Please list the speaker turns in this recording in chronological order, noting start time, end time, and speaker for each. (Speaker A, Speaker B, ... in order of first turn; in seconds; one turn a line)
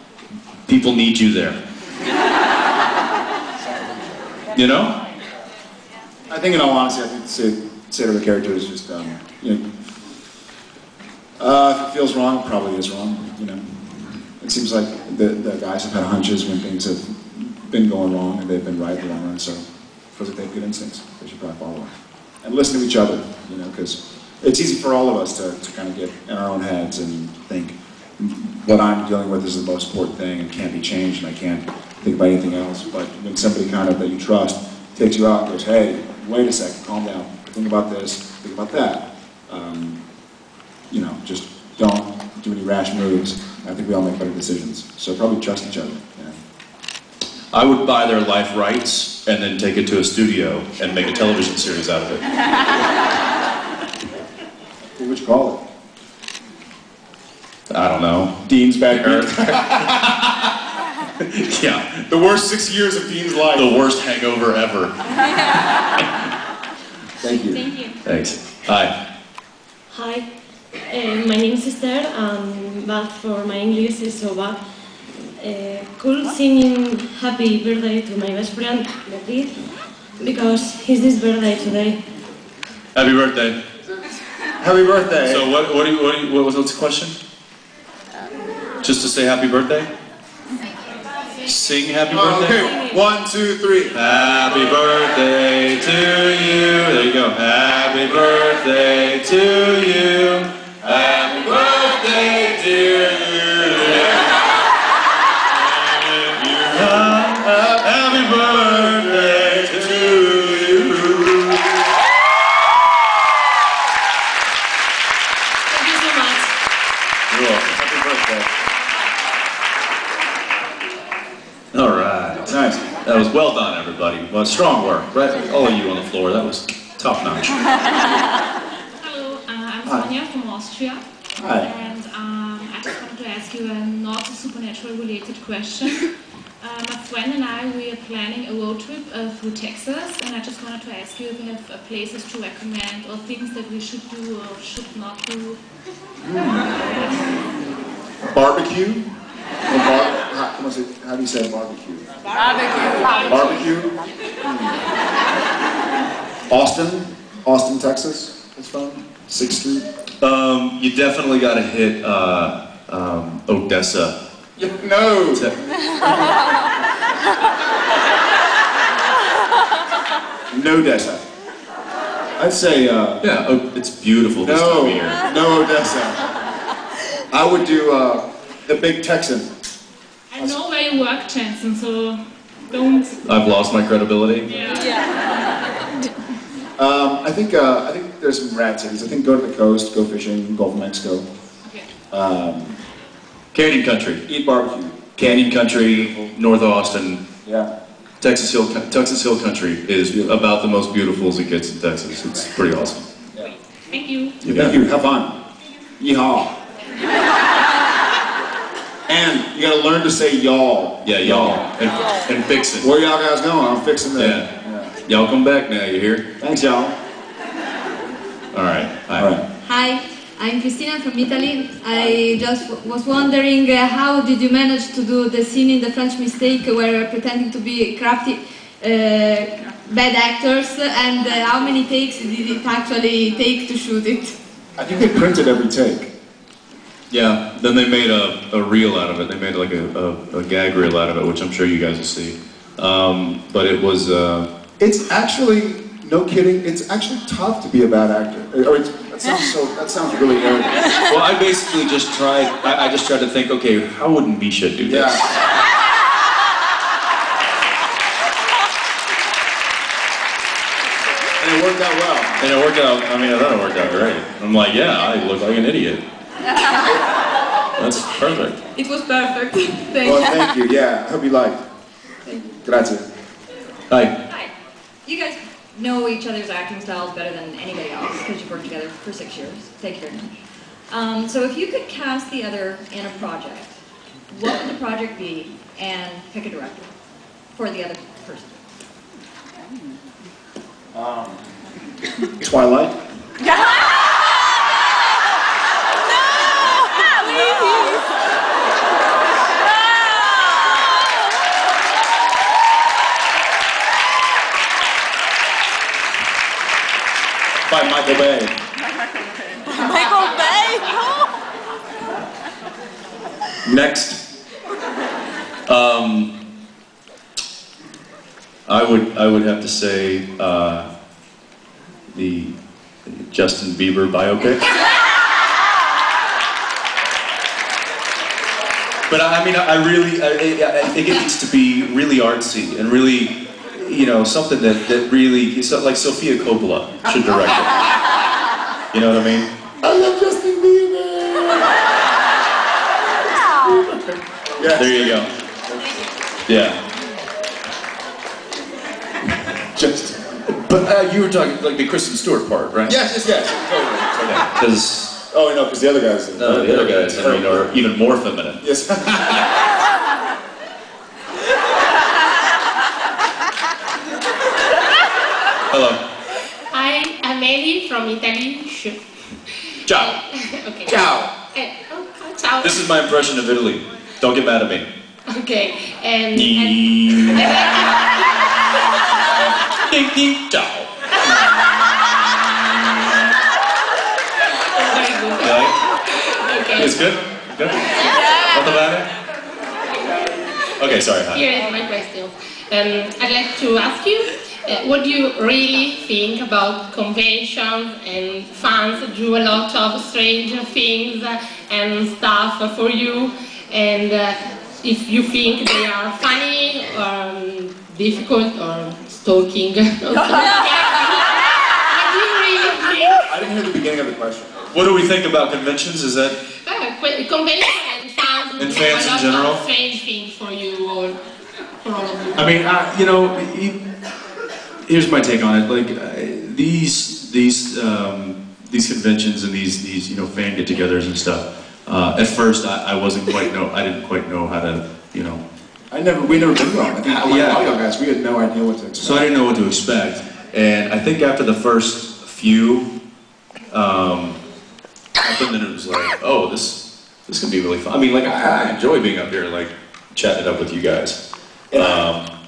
Speaker A: 0.7-1.6
Speaker A: 4.5-4.9
Speaker B: 6.3-9.6
Speaker B: 11.4-40.0
Speaker B: 40.9-46.4
Speaker A: 47.5-52.2
Speaker B: 55.0-55.6
Speaker A: 57.7-60.5
Speaker B: 58.5-60.1
Speaker A: 61.2-62.0
Speaker B: 62.1-63.7
Speaker A: 63.5-64.9
Speaker B: 67.2-67.7
Speaker A: 68.0-68.9
Speaker C: 69.9-70.3
Speaker C: 70.8-74.6
Speaker C: 75.4-79.6
Speaker C: 80.2-82.0
Speaker A: 82.9-83.6
Speaker B: 84.6-85.5
Speaker A: 85.2-87.2
Speaker A: 88.8-89.9
Speaker A: 91.5-92.7
Speaker B: 92.1-94.0
Speaker A: 93.9-104.4
Speaker A: 105.5-111.7
Speaker B: 107.5-110.7
Speaker D: 115.7-116.5
Speaker A: 117.3-117.8
Speaker B: 117.7-118.5
Speaker A: 121.7-127.6
Speaker B: 122.4-122.8
Speaker E: 129.0-131.0
Speaker B: 131.4-131.7
Speaker E: 131.6-136.1
Speaker E: 136.6-145.6
Speaker B: 146.2-146.8
Speaker B: 148.2-149.1
Speaker B: 149.7-152.1
Speaker E: 153.0-153.3
Speaker B: 153.2-154.8
Speaker B: 156.5-159.9
Speaker A: 160.2-164.2
Speaker B: 164.6-165.4
Speaker B: 166.0-166.4
Speaker B: 170.5-171.2
Speaker B: 172.4-173.2
Speaker A: 173.2-175.2
Speaker B: 174.4-176.2
Speaker B: 177.3-179.5
Speaker E: 180.3-183.2
Speaker A: 183.2-184.5
Speaker E: 184.5-185.0
Speaker B: 186.8-191.2
Speaker B: 192.1-192.8
Speaker A: 193.5-194.2
Speaker B: 194.3-196.3
Speaker A: 195.2-197.2
Speaker B: 197.4-197.7
Speaker A: 198.2-203.1
Speaker B: 200.1-200.4
Speaker E: 203.9-204.4
Speaker A: 204.4-204.8
Speaker B: 204.4-205.4
Speaker B: 206.0-206.5
Speaker B: 209.1-211.7
Speaker A: 211.0-212.9
Speaker B: 212.8-214.9
Speaker A: 214.2-214.5
Speaker A: 215.1-216.3
Speaker B: 216.4-216.9
Speaker A: 218.5-219.3
Speaker B: 219.1-219.4
Speaker F: 219.6-234.4
Speaker B: 234.8-236.1
Speaker A: 237.1-244.5
Speaker B: 244.8-250.9
Speaker A: 251.1-255.3
Speaker B: 254.9-255.2
Speaker B: 261.4-262.4
Speaker A: 262.4-266.0
Speaker A: 267.8-268.6
Speaker F: 268.7-270.5
Speaker B: 270.0-271.6
Speaker B: 272.3-273.0
Speaker A: 273.9-274.1
Speaker G: 275.0-280.2
Speaker G: 280.9-283.8
Speaker G: 284.3-286.9
Speaker G: 287.5-288.6
Speaker B: 290.9-291.4
Speaker B: 292.4-293.0
Speaker B: 307.7-308.5
Speaker B: 313.7-314.1
Speaker A: 313.7-314.1
Speaker A: 315.7-316.3
Speaker A: 318.7-320.9
Speaker A: 322.1-322.5
Speaker A: 323.1-324.6
Speaker A: 329.1-337.8
Speaker A: 338.9-339.5
Speaker B: 339.8-341.7
Speaker B: 343.6-345.9
Speaker A: 344.7-345.3
Speaker A: 346.5-346.8
Speaker B: 349.7-350.4
Speaker A: 350.5-352.9
Speaker B: 352.9-354.5
Speaker A: 354.3-355.2
Speaker B: 355.3-357.7
Speaker A: 356.4-358.6
Speaker B: 358.6-359.5
Speaker A: 365.7-366.0
Speaker D: 366.7-369.0
Speaker A: 369.8-370.2
Speaker D: 369.9-372.8
Speaker B: 370.9-371.3
Speaker A: 372.6-374.9
Speaker D: 375.3-378.2
Speaker A: 376.3-377.8
Speaker A: 379.9-380.9
Speaker D: 384.7-387.1
Speaker A: 385.4-385.8
Speaker A: 386.8-389.1
Speaker A: 390.8-391.4
Speaker D: 391.3-413.2
Speaker B: 413.3-414.6
Speaker A: 414.7-416.4
Speaker D: 416.6-421.2
Speaker A: 418.6-419.6
Speaker D: 421.8-422.5
Speaker A: 422.3-423.8
Speaker A: 424.9-435.4
Speaker B: 435.9-439.3
Speaker A: 436.6-437.7
Speaker A: 439.0-442.9
Speaker A: 443.7-444.4
Speaker A: 445.2-451.2
Speaker B: 451.7-452.1
Speaker A: 451.7-452.3